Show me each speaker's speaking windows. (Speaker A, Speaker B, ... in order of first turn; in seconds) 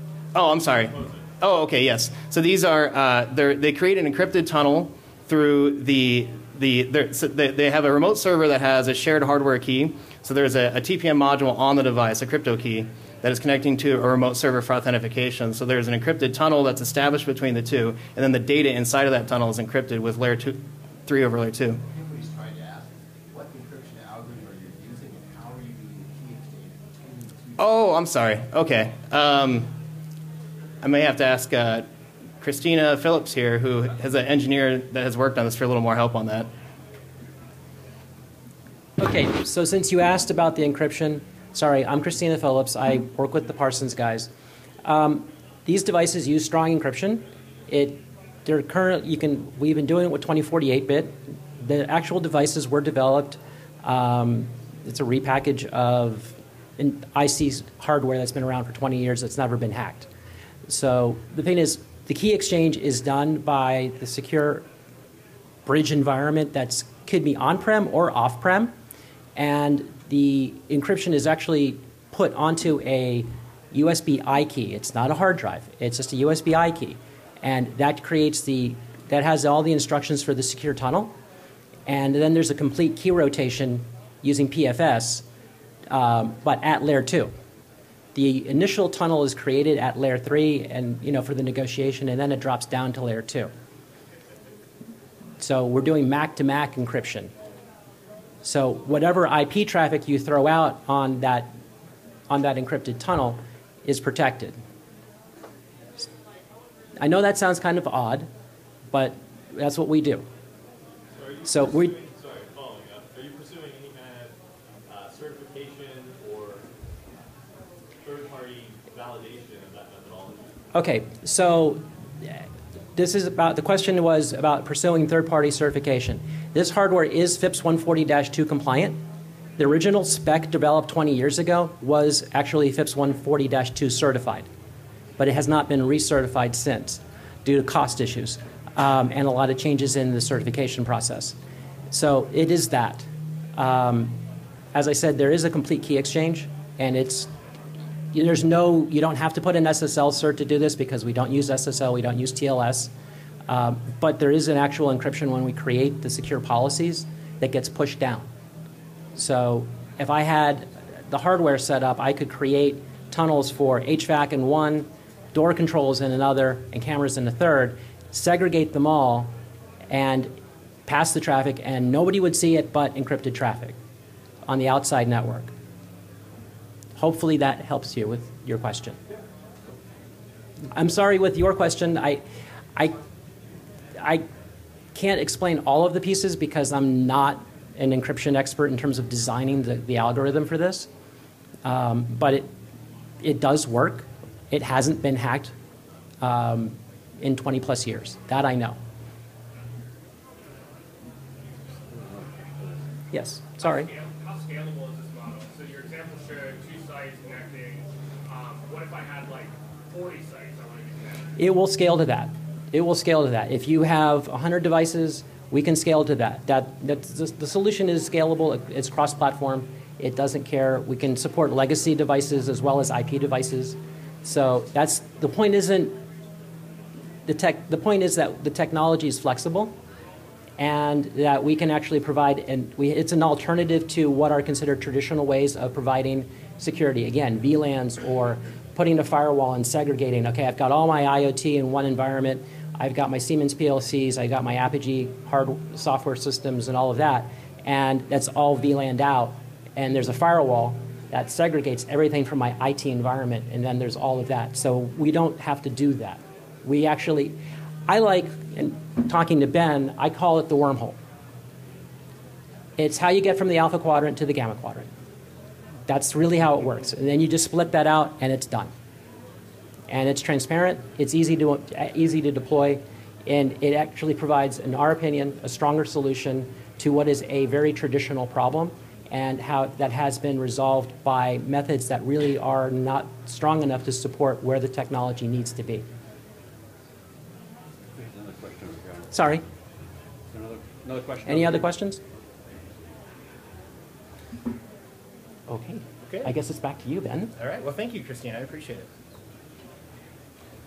Speaker A: 0.3-21.8, 27.6-29.7, 30.8-31.9, 32.4-36.5, 297.4-298.9
Speaker B: 21.9-27.6
Speaker C: 39.0-44.3, 44.8-60.1, 60.7-64.7, 65.7-68.7, 69.4-81.1, 81.9-85.2, 85.9-87.3, 88.1-93.5, 95.4-97.3, 98.4-101.5, 102.3-104.6, 107.0-108.3, 108.9-110.3, 111.5-112.0, 120.7-121.8, 123.0-129.0, 129.6-134.5, 135.2-141.3, 141.9-144.2, 144.7-147.3, 148.1-152.9, 153.5-158.3, 159.2-169.3, 169.9-170.3, 170.9-173.8, 174.5-175.5, 177.0-179.0, 180.7-182.2, 184.0-184.2, 184.9-190.9, 191.6-192.5, 193.2-195.5, 196.2-198.8, 203.1-203.9, 211.4-226.0, 227.3-229.8, 230.6-257.4, 257.9-261.0, 262.8-264.9, 265.9-268.7, 269.9-285.9, 289.1-289.4, 291.3-292.0, 295.5-297.3
Speaker D: 111.1-114.3, 114.9-116.7, 118.0-120.5
Speaker E: 203.6-211.3
Speaker F: 288.0-289.1, 290.3-291.7